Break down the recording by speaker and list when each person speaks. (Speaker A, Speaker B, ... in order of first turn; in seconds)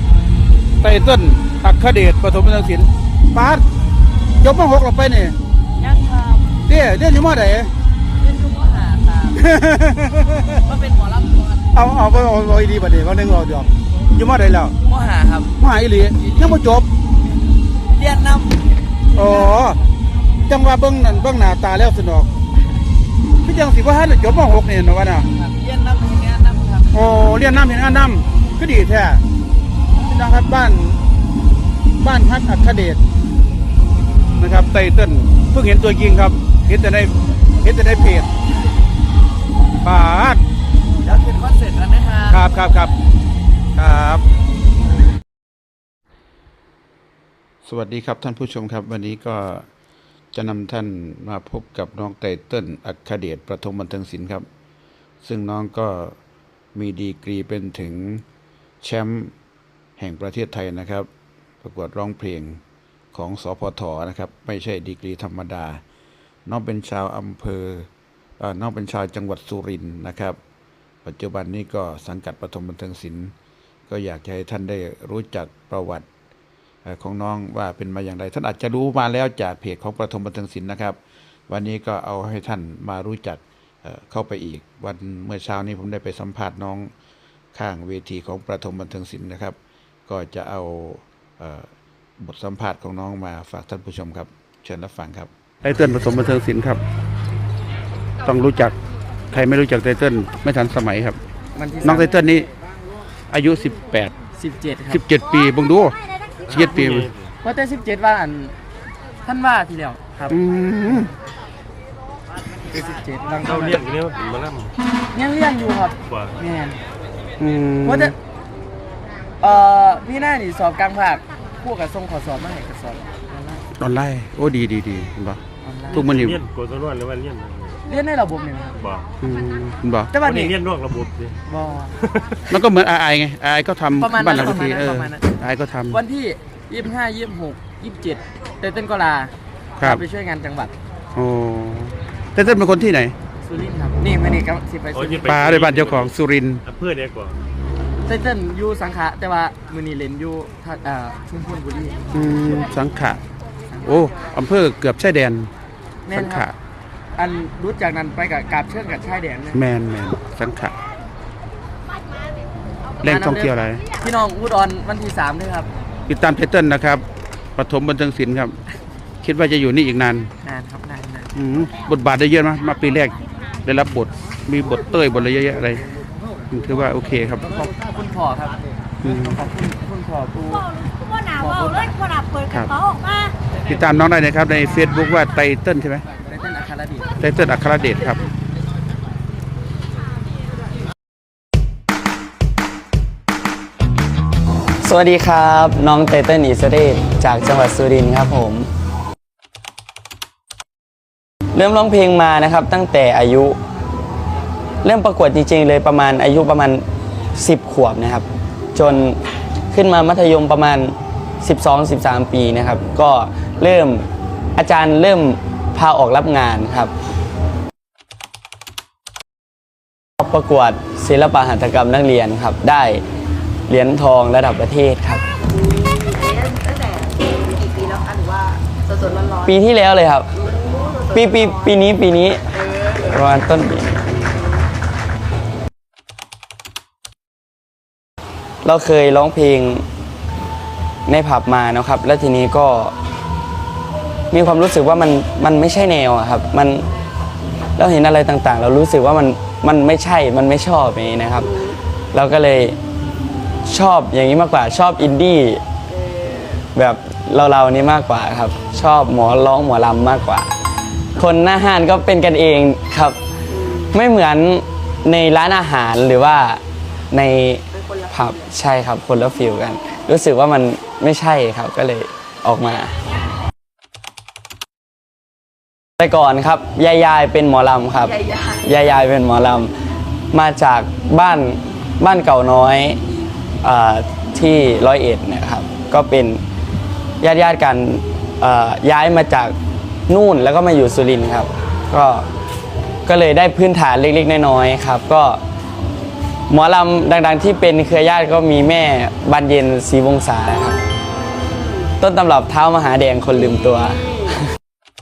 Speaker A: 0.8-3.6, 4.4-5.3, 6.7-7.7, 9.4-10.0, 11.8-14.7, 15.7-16.9, 19.2-19.8, 20.5-22.3, 23.5-25.3, 27.0-29.2, 30.1-30.8, 32.0-33.0, 34.4-37.0, 37.6-38.3, 39.9-40.4, 42.3-42.9, 43.8-44.2, 47.6-49.7, 50.3-54.5, 55.2-56.2, 56.8-58.2, 58.8-59.3, 60.0-61.1, 61.6-62.6, 63.1-65.8, 66.5-67.9, 68.4-70.4, 71.0-73.3, 73.9-76.1, 76.8-86.9, 87.5-89.6, 90.1-96.8, 98.2-98.8, 99.3-101.2, 101.8-102.5, 103.3-104.1, 104.9-106.0, 106.5-107.1, 110.3-111.1, 123.8-125.4, 125.9-126.4, 129.2-130.1, 132.5-136.0, 141.2-143.2, 145.3-146.6, 152.1-153.2, 153.8-155.5, 156.1-156.5, 159.5-160.8, 163.0-163.8, 166.1-167.0, 167.6-168.6, 169.2-170.3, 171.3-175.8, 176.5-177.5, 179.0-179.3, 182.5-182.8, 183.7-186.0, 187.2-188.2
Speaker B: 5.8-6.5, 8.2-9.4, 10.7-11.6, 14.9-15.5, 16.2-16.6, 18.0-18.6, 25.4-26.9, 101.5-102.2, 104.4-105.0, 107.4-108.5, 109.3-111.1, 112.7-113.9, 115.1-116.8, 117.8-118.2, 119.4-123.6, 125.6-126.2, 127.9-128.8, 130.1-130.6, 131.5-132.0, 134.0-135.3, 135.9-140.7, 143.4-145.4, 148.1-152.1, 156.1-156.5, 157.2-159.6, 163.0-165.7, 170.4-171.3, 177.5-182.3, 186.2-187.1
Speaker C: 106.5-107.3, 113.4-114.7, 116.1-116.3, 126.0-127.8, 128.8-129.1, 130.2-131.3, 144.9-146.2, 146.7-147.3
Speaker D: 117.4-118.1, 194.8-198.7, 201.5-203.6, 204.8-206.8, 207.3-209.2, 209.7-214.1, 214.6-216.9, 220.2-223.0, 223.7-225.2, 229.4-230.3, 231.1-232.4, 233.0-234.2, 238.6-239.8, 241.1-242.9, 244.3-246.8, 247.8-251.5, 252.1-252.8, 253.7-255.6, 256.8-260.5, 261.2-263.2, 263.9-272.9, 276.0-279.7, 280.3-283.0, 283.6-286.4, 287.2-289.6, 290.1-292.2, 293.1-295.4, 296.5-300.8, 302.0-304.3
Speaker E: 225.5-229.5, 230.4-231.7, 232.6-233.1, 251.4-251.8, 255.9-256.6, 263.5-263.9, 267.7-268.4, 278.1-278.6